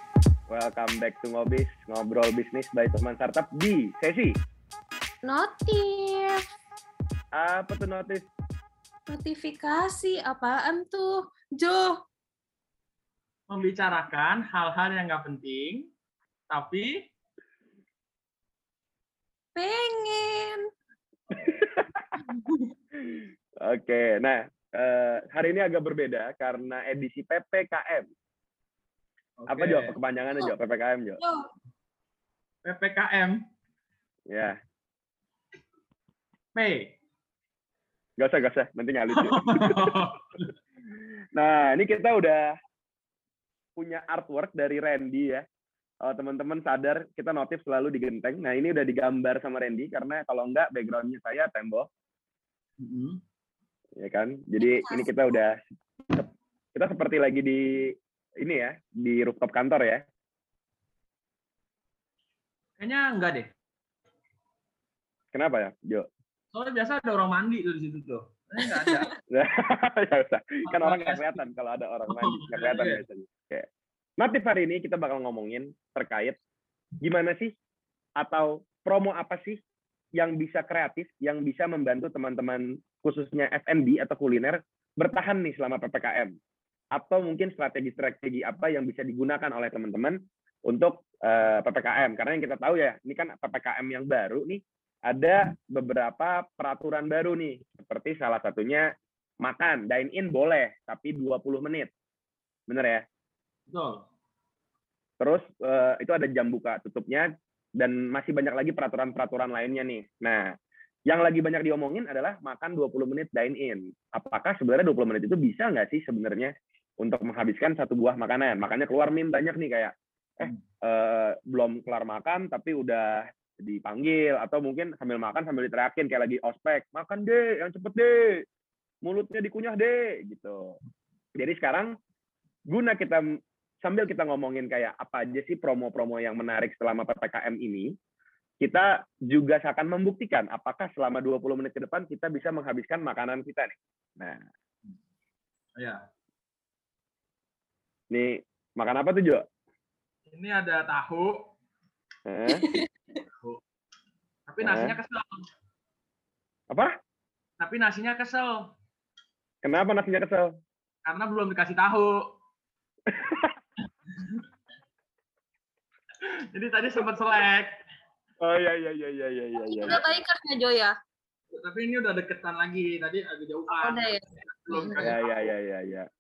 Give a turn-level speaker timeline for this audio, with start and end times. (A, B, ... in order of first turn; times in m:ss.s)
0:00.5-0:04.4 A
0:05.2-0:06.4 B
0:07.4-0:08.3 A
0:09.1-0:12.0 B
0:13.5-0:15.9 C
0:16.5-0:16.9 C
0:19.6-0:20.6 B
0:21.3-0:22.2 A
0:22.2-0:22.7 C
0:22.9-0:28.1 A
0:29.4-0:30.0 C
0:29.5-0:31.2 A
0:31.2-0:31.4 B
0:32.6-0:33.4 C
0:34.3-0:34.6 A
0:36.6-0:36.9 C
0:38.2-0:40.1 A
0:39.2-0:40.5 C
0:41.4-0:42.5 A
0:43.8-0:45.4 A
0:46.0-0:51.9 A
0:52.8-0:53.2 C
0:54.0-1:00.0 A
0:54.6-0:55.1 B
1:02.8-1:03.5 C
1:05.3-1:06.1 A
1:06.5-1:09.1 C
1:08.8-1:09.0 B
1:09.3-1:13.7 A
1:10.7-1:11.4 C
1:12.1-1:13.0 C
1:14.2-1:16.4 A
1:17.0-1:17.6 A
1:18.2-1:19.6 A
1:20.2-1:26.3 A
1:26.9-1:38.9 A
1:39.4-1:41.9 A
1:42.7-1:43.0 A
1:43.7-1:44.0 C
1:45.2-1:50.5 A
1:51.1-2:08.4 A
2:09.0-2:10.8 A
2:11.4-2:11.9 A
2:12.7-2:13.2 A
2:13.8-2:17.9 A
2:18.6-2:24.5 A
2:25.8-2:26.0 C
2:28.1-2:29.5 A
2:30.3-2:31.5 C
2:32.3-2:32.7 A
2:32.5-2:32.9 B
2:34.5-2:35.5 C
2:34.6-2:35.0 A
2:37.6-2:38.7 C
2:39.6-2:40.5 A
2:41.1-2:42.4 C
2:43.1-2:43.6 A
2:44.1-2:44.4 C
2:46.2-2:47.8 C
2:48.4-2:50.0 A
2:49.6-2:51.0 B
2:51.5-2:55.4 C
2:53.8-2:55.1 B
2:55.0-2:56.1 A